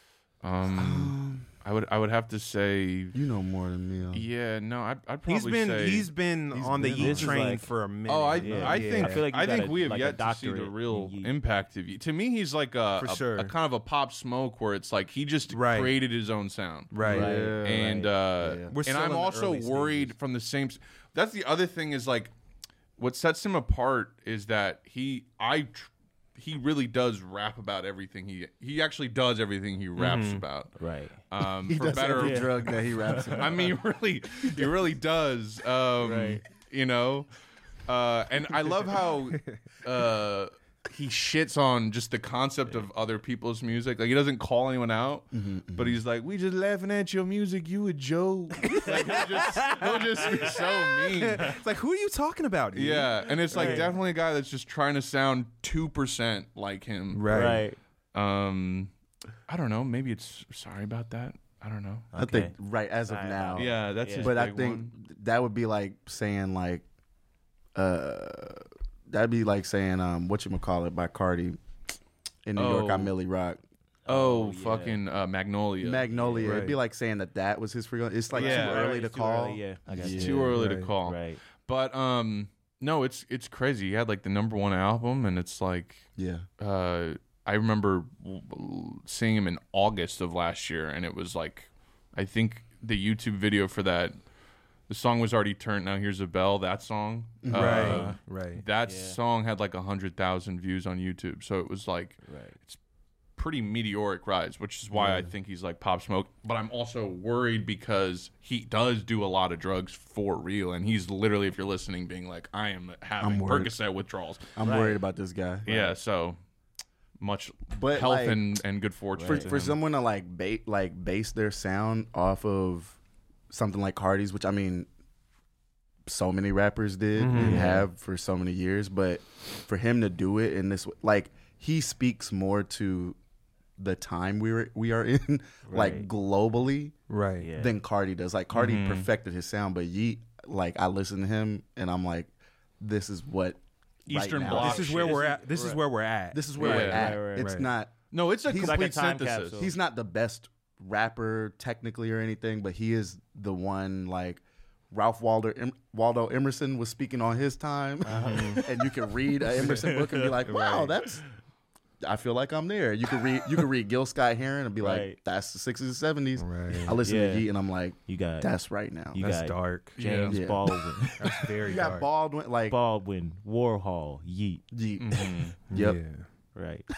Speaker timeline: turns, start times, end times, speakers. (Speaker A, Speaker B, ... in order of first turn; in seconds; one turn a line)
Speaker A: 0.4-3.2
Speaker B: 0.7-1.5
Speaker B: 3.1-4.2
Speaker A: 4.1-6.1
Speaker C: 5.3-9.2
Speaker B: 6.5-7.4
Speaker D: 7.0-7.7
Speaker A: 8.1-22.3
Speaker D: 8.4-11.3
Speaker C: 13.0-13.5
Speaker C: 15.5-15.9
Speaker C: 16.9-17.4
Speaker B: 17.0-18.8
Speaker D: 17.0-18.1
Speaker C: 18.7-20.1
Speaker A: 23.0-30.7
Speaker C: 30.0-30.4
Speaker D: 30.8-31.2
Speaker A: 31.3-32.8
Speaker B: 31.6-33.8
Speaker D: 32.1-33.4
Speaker A: 33.4-37.3
Speaker D: 36.0-36.4
Speaker A: 37.9-51.6
Speaker B: 45.3-46.0
Speaker C: 48.7-53.9
Speaker A: 52.7-57.5
Speaker D: 53.5-53.9
Speaker C: 57.1-57.6
Speaker D: 57.3-57.8
Speaker A: 58.1-58.9
Speaker A: 59.5-62.1
Speaker D: 62.1-62.5
Speaker B: 62.2-66.8
Speaker D: 63.1-64.3
Speaker A: 63.6-64.9
Speaker B: 67.8-71.6
Speaker B: 72.5-73.6
Speaker A: 72.6-73.1
Speaker D: 74.1-75.0
Speaker A: 74.1-76.1
Speaker B: 75.8-80.5
Speaker D: 76.1-76.5
Speaker C: 76.4-76.8
Speaker D: 78.3-81.4
Speaker A: 78.3-78.9
Speaker A: 80.0-94.2
Speaker C: 80.5-80.9
Speaker B: 86.2-86.5
Speaker A: 94.9-102.8
Speaker B: 97.4-98.0
Speaker C: 97.5-98.6
Speaker D: 97.7-98.2
Speaker D: 98.8-99.2
Speaker D: 102.2-102.6
Speaker A: 103.4-114.5
Speaker B: 104.9-105.3
Speaker B: 113.2-113.8
Speaker B: 114.6-116.0
Speaker D: 114.6-115.0
Speaker A: 115.7-116.4
Speaker A: 117.2-119.8
Speaker B: 117.8-118.6
Speaker D: 119.2-119.5
Speaker B: 119.2-123.0
Speaker B: 123.5-124.9
Speaker B: 126.1-133.2
Speaker C: 127.2-127.7
Speaker D: 127.4-127.9
Speaker B: 133.8-136.9
Speaker D: 135.7-136.1
Speaker C: 137.1-137.5
Speaker D: 137.4-137.7
Speaker B: 137.6-145.8
Speaker A: 138.5-139.1
Speaker A: 144.1-145.8
Speaker C: 144.5-146.4
Speaker B: 146.3-148.9
Speaker A: 146.6-147.1
Speaker D: 146.6-147.5
Speaker C: 147.4-147.7
Speaker A: 148.1-149.7
Speaker D: 148.5-149.7
Speaker B: 149.6-161.2
Speaker D: 158.0-158.7
Speaker C: 158.2-158.6
Speaker D: 159.5-160.4
Speaker C: 160.5-160.9
Speaker B: 162.0-169.2
Speaker D: 164.8-165.2
Speaker C: 166.4-167.0
Speaker D: 167.0-167.5
Speaker D: 168.1-168.5
Speaker D: 169.1-171.3
Speaker C: 169.2-170.0
Speaker A: 170.0-170.4
Speaker B: 170.3-170.7
Speaker C: 171.2-172.1
Speaker B: 171.6-172.8
Speaker D: 172.7-174.6
Speaker B: 174.7-176.0
Speaker A: 175.0-175.6
Speaker C: 175.7-176.3
Speaker D: 176.6-176.9